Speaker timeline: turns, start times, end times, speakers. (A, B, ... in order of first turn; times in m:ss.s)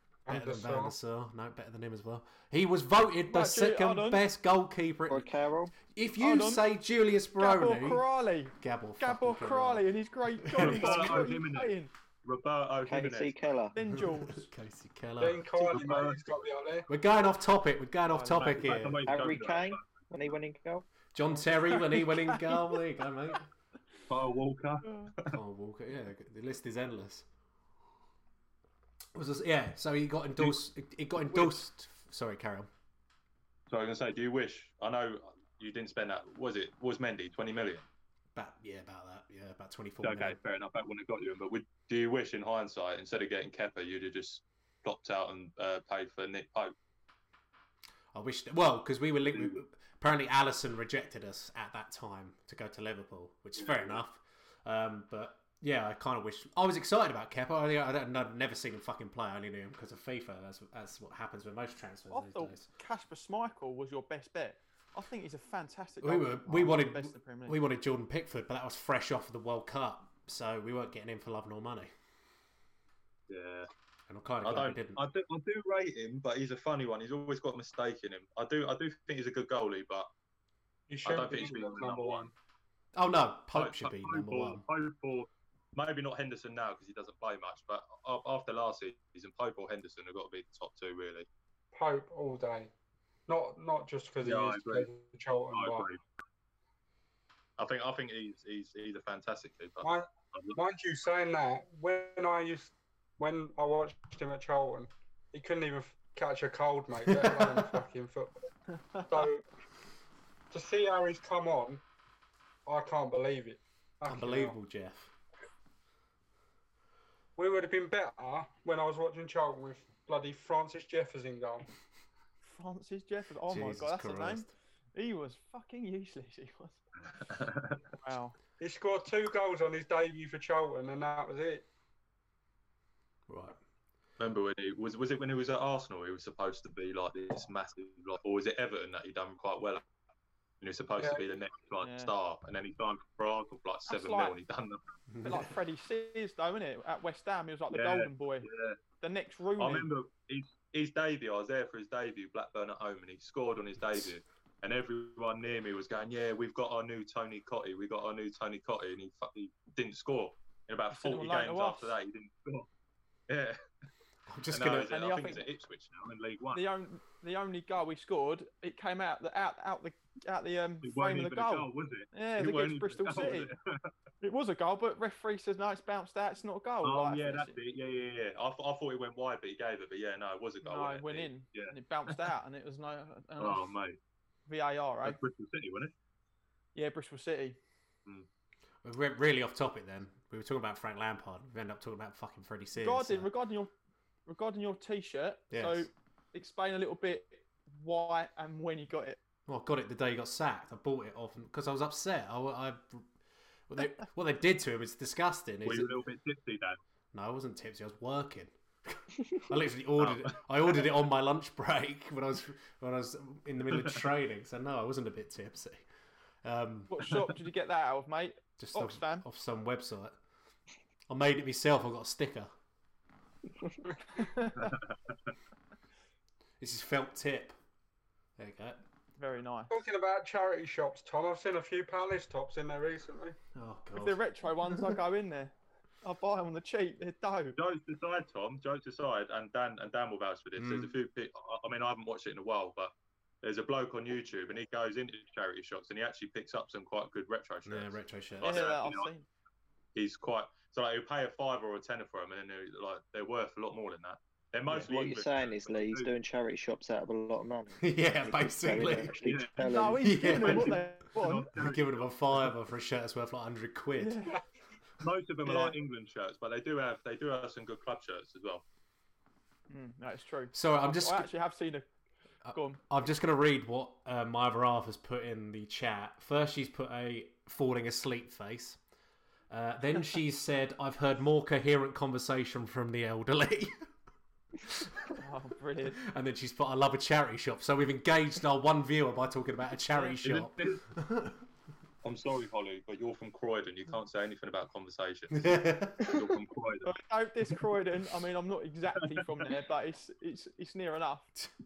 0:00.3-0:00.9 A
0:00.3-0:05.3 B
0:03.3-0:04.2 C
0:05.1-0:05.7 D
0:05.8-0:08.0 B
0:06.2-0:06.6 C
0:07.4-0:11.9 C
0:08.6-0:09.9 B
0:10.4-0:11.2 B
0:10.6-0:13.3 E
0:12.8-0:13.8 D
0:13.7-0:14.5 C
0:13.8-0:15.5 B
0:15.2-0:16.9 A
0:15.7-0:16.2 E
0:16.9-0:19.0 B
0:18.1-0:18.5 C
0:18.4-0:19.9 E
0:19.0-0:20.9 D
0:21.1-0:23.5 B
0:21.7-0:22.4 C
0:24.1-0:25.4 E
0:25.3-0:27.2 B
0:29.1-0:32.7 B
0:33.7-0:37.8 E
0:38.3-0:40.4 B
0:40.0-0:46.7 E
0:48.1-1:02.7 B
0:49.3-0:49.6 E
0:53.5-0:54.0 E
1:02.1-1:07.6 C
1:06.0-1:11.9 B
1:13.3-1:13.7 E
1:14.1-1:15.0 B
1:14.4-1:20.1 E
1:20.9-1:22.3 A
1:21.0-1:22.3 E
1:23.0-1:24.6 B
1:23.5-1:31.3 E
1:31.7-1:32.7 A
1:33.3-1:35.9 A
1:34.2-1:34.9 E
1:35.5-1:36.0 E
1:37.6-1:40.6 E
1:39.8-1:48.3 A
1:47.1-1:47.6 B
1:48.8-1:49.1 C
1:49.0-1:49.4 A
1:50.5-1:51.8 A
1:52.6-1:54.5 A
1:54.1-1:55.1 B
1:57.4-2:01.6 A
2:02.4-2:06.8 C
2:03.5-2:04.5 B
2:07.2-2:07.8 E
2:08.0-2:08.4 C
2:08.6-2:11.7 A
2:13.3-2:13.6 B
2:14.2-2:19.8 E
2:20.6-2:24.9 E
2:21.0-2:21.2 A
2:21.8-2:22.1 C
2:23.9-2:24.4 C
2:25.1-2:25.4 B
2:25.2-2:28.5 C
2:27.7-2:28.8 E
2:29.0-2:29.9 C
2:29.6-2:42.7 E
2:40.9-2:41.9 C
2:43.3-2:43.6 E
2:44.3-2:44.9 B
2:44.5-2:46.6 E
2:44.9-2:45.4 C
2:46.5-2:53.5 C
2:50.8-2:53.9 E
2:54.2-2:57.6 C
2:56.8-3:02.3 E
3:00.6-3:03.6 C
3:03.4-3:04.0 E
3:04.5-3:05.2 C
3:05.0-3:05.9 E
3:06.7-3:07.6 C
3:08.8-3:13.3 B
3:12.8-3:13.7 C
3:14.2-3:19.2 C
3:15.5-3:15.9 B
3:19.5-3:23.1 B
3:23.7-3:25.9 B
3:25.6-3:26.8 E
3:27.1-3:35.8 B
3:30.0-3:30.9 E
3:33.7-3:34.0 E
3:36.4-3:37.1 B
3:36.9-3:39.2 C
3:38.6-3:40.2 B
3:41.1-3:42.5 B
3:44.1-3:44.7 C
3:44.6-3:45.1 E
3:46.6-3:47.5 B
3:48.4-3:48.8 B
3:49.2-3:49.7 C
3:49.7-3:53.4 A
3:53.5-3:55.0 B
3:54.0-3:57.6 C
3:57.6-4:09.1 E
4:00.6-4:00.9 B
4:07.6-4:08.6 B
4:08.4-4:09.3 C
4:09.9-4:16.1 E
4:14.8-4:20.2 D
4:17.8-4:19.3 B
4:19.2-4:19.7 E
4:19.6-4:21.5 C
4:20.0-4:20.9 B
4:20.4-4:22.5 E
4:21.5-4:24.2 B
4:24.0-4:24.4 C
4:25.0-4:28.6 E
4:25.4-4:25.8 C
4:29.7-4:31.9 C
4:30.5-4:31.3 B
4:32.4-4:38.8 B
4:32.5-4:32.8 C
4:39.5-4:43.8 B
4:44.6-4:45.2 B
4:45.2-4:46.0 C
4:46.0-4:51.4 B
4:50.2-4:50.8 E
4:52.0-4:55.5 E
4:55.3-4:56.2 B
4:56.0-4:56.9 E
4:56.8-5:01.3 C